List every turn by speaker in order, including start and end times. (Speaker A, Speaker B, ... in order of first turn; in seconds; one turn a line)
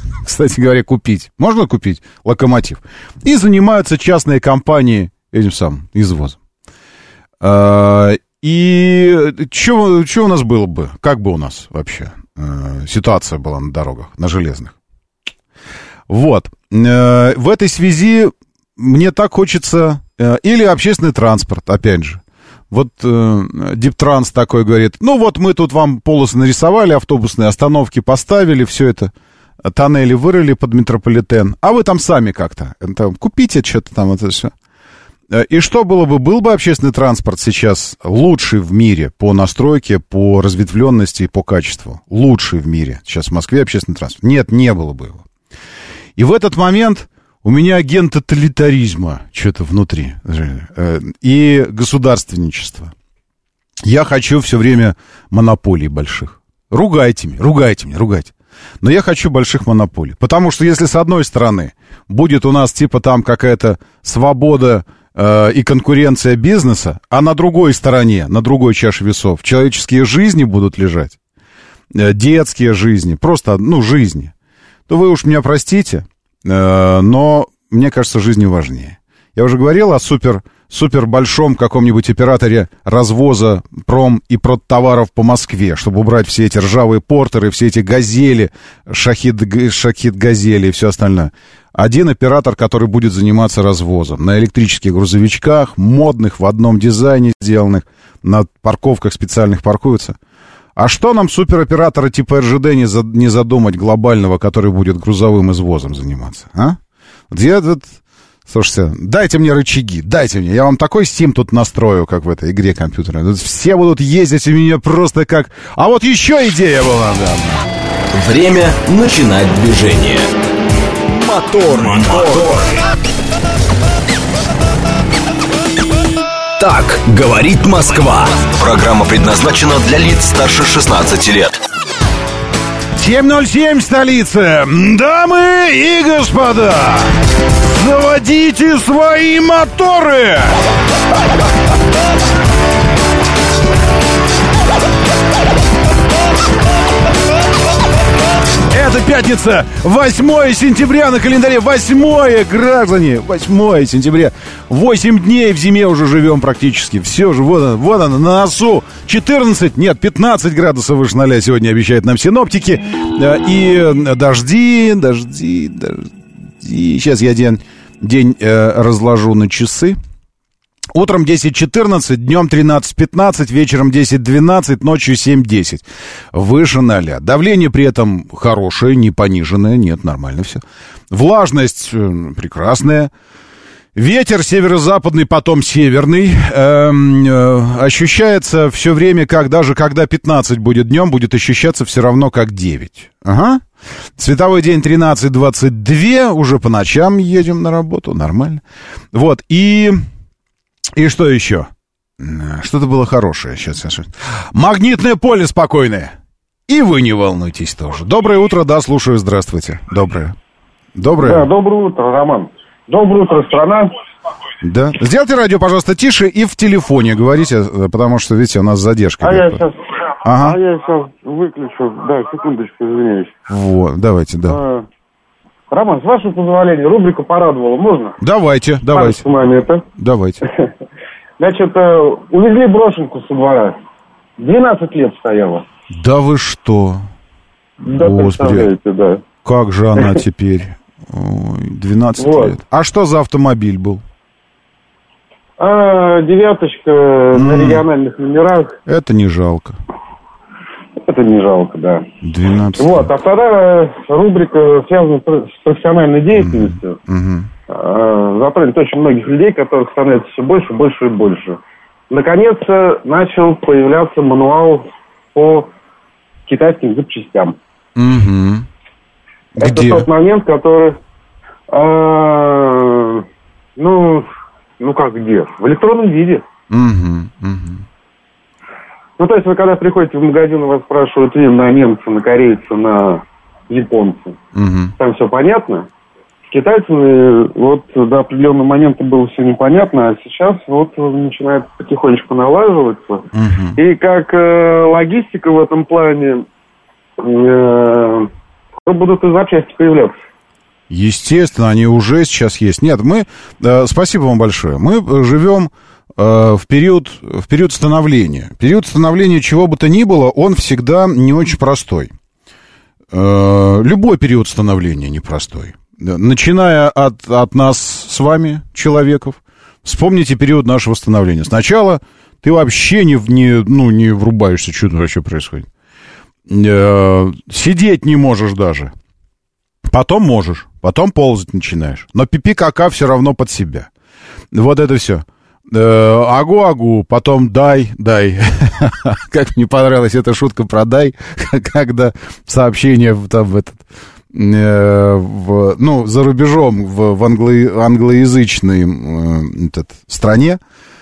Speaker A: 0.2-6.4
Speaker A: 7.4-14.7
Speaker A: 16.1-29.1
Speaker A: 29.6-34.5
Speaker A: 35.3-45.2
Speaker A: 46.2-52.9
Speaker A: 53.8-71.2
Speaker A: 71.9-74.3
Speaker A: 74.9-100.2
Speaker A: 100.8-106.8
Speaker A: 107.3-117.6
Speaker B: 118.1-120.3
Speaker B: 121.1-122.7
Speaker B: 126.6-131.6
Speaker A: 133.0-140.6
Speaker A: 148.7-170.0
Speaker A: 170.9-183.1
Speaker A: 183.9-193.6
Speaker A: 194.2-198.6
Speaker A: 199.1-200.0
Speaker A: 200.9-206.1
Speaker A: 206.7-210.3
Speaker A: 210.9-211.5
Speaker C: 211.2-213.9
Speaker A: 214.6-219.6
Speaker C: 219.2-223.3
Speaker A: 220.2-220.6
Speaker A: 223.5-224.6
Speaker C: 224.4-224.8
Speaker C: 225.7-228.2
Speaker A: 228.2-229.3
Speaker C: 228.9-229.8
Speaker A: 230.0-230.4
Speaker C: 231.4-233.8
Speaker C: 234.4-235.7
Speaker A: 235.9-237.0
Speaker C: 237.8-239.2
Speaker A: 237.9-238.7
Speaker A: 239.4-244.0
Speaker C: 242.2-242.6
Speaker C: 245.6-248.8
Speaker A: 247.3-247.8
Speaker A: 248.8-249.8
Speaker C: 251.0-252.1
Speaker A: 252.2-253.1
Speaker C: 252.8-257.0
Speaker A: 256.3-257.5
Speaker C: 257.7-265.7
Speaker C: 266.5-267.6
Speaker A: 267.9-268.7
Speaker A: 269.6-270.1
Speaker C: 269.6-271.0
Speaker C: 271.7-273.2
Speaker C: 273.8-274.3
Speaker C: 274.8-276.4
Speaker A: 276.7-277.8
Speaker C: 279.2-284.4
Speaker A: 284.5-284.9
Speaker C: 285.0-285.9
Speaker C: 286.5-296.5
Speaker A: 293.3-293.8
Speaker C: 297.2-298.3
Speaker C: 298.8-300.2
Speaker A: 300.9-312.1
Speaker A: 313.1-325.7
Speaker A: 326.5-328.9
Speaker A: 329.9-333.9
Speaker A: 334.5-343.8
Speaker A: 344.3-350.6